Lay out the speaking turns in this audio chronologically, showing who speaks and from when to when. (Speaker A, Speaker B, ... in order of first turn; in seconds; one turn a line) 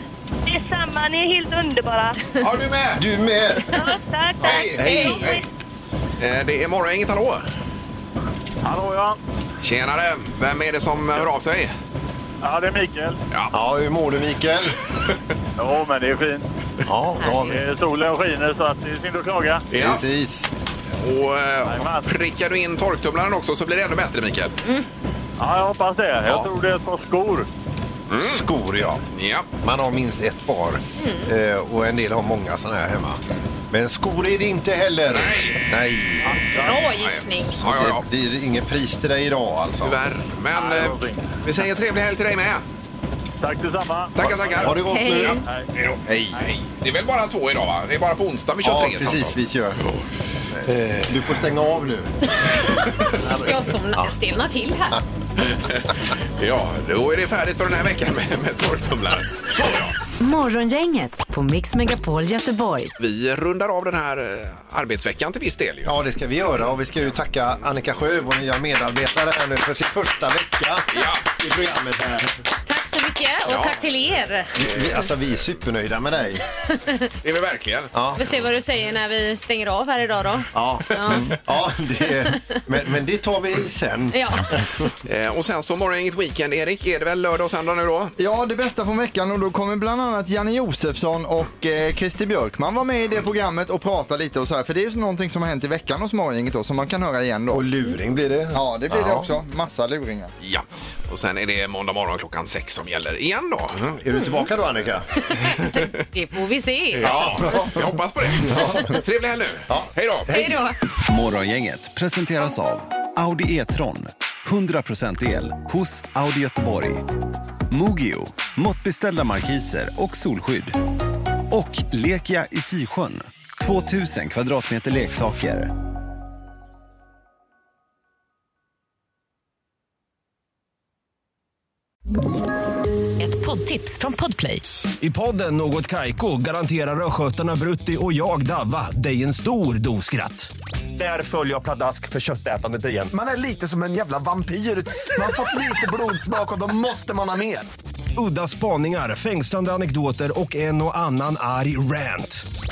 Speaker A: 0.5-2.3
Speaker B: 2.4-3.0
Speaker C: 3.0-3.7
Speaker A: 3.7-5.2
Speaker C: 4.4-5.2
Speaker B: 4.4-5.4
Speaker D: 4.9-5.4
Speaker B: 6.2-7.5
Speaker E: 8.6-9.2
Speaker B: 9.6-11.7
Speaker E: 12.4-13.2
Speaker C: 13.5-14.8
Speaker E: 15.6-16.5
Speaker C: 16.9-17.6
Speaker D: 17.2-17.6
Speaker E: 17.5-19.7
Speaker B: 19.7-20.0
Speaker C: 19.7-20.5
Speaker B: 21.0-24.6
Speaker E: 21.6-22.1
Speaker E: 25.4-27.5
Speaker B: 28.1-28.5
Speaker C: 28.2-29.0
Speaker B: 29.1-29.5
Speaker C: 29.6-36.3
Speaker D: 31.0-31.3
Speaker B: 35.1-35.6
Speaker E: 36.2-36.8
Speaker D: 36.6-37.6
Speaker B: 37.0-38.1
Speaker C: 37.6-40.0
Speaker B: 39.8-42.6
Speaker E: 40.5-41.3
Speaker E: 43.4-44.6
Speaker B: 44.2-45.2
Speaker C: 44.6-45.4
Speaker D: 44.9-45.4
Speaker E: 45.5-46.0
Speaker C: 46.1-46.4
Speaker B: 46.1-50.0
Speaker C: 48.6-49.8
Speaker C: 50.5-52.1
Speaker C: 53.2-54.1
Speaker D: 53.2-55.0
Speaker B: 55.4-60.0
Speaker F: 60.2-62.9
Speaker B: 63.0-65.9
Speaker C: 65.8-72.3
Speaker B: 70.9-71.2
Speaker D: 72.7-74.7
Speaker B: 73.5-73.8
Speaker C: 74.6-76.4
Speaker D: 76.8-77.0
Speaker B: 77.2-78.2
Speaker C: 77.9-78.2
Speaker D: 78.2-81.4
Speaker C: 80.5-84.9
Speaker D: 82.0-82.6
Speaker D: 84.1-84.5
Speaker B: 85.1-88.2
Speaker G: 88.2-97.7
Speaker C: 97.5-99.3
Speaker G: 98.5-100.3
Speaker B: 100.4-104.0
Speaker C: 103.8-105.1
Speaker D: 104.1-104.5
Speaker D: 105.4-107.6
Speaker B: 107.0-110.4
Speaker C: 107.0-107.8
Speaker C: 108.4-109.0
Speaker C: 109.7-110.6
Speaker D: 110.3-110.8
Speaker H: 111.1-117.0
Speaker H: 117.7-120.8
Speaker H: 121.5-125.7
Speaker F: 133.2-134.7
Speaker H: 135.0-143.1
Speaker I: 143.1-147.7
Speaker H: 148.2-152.4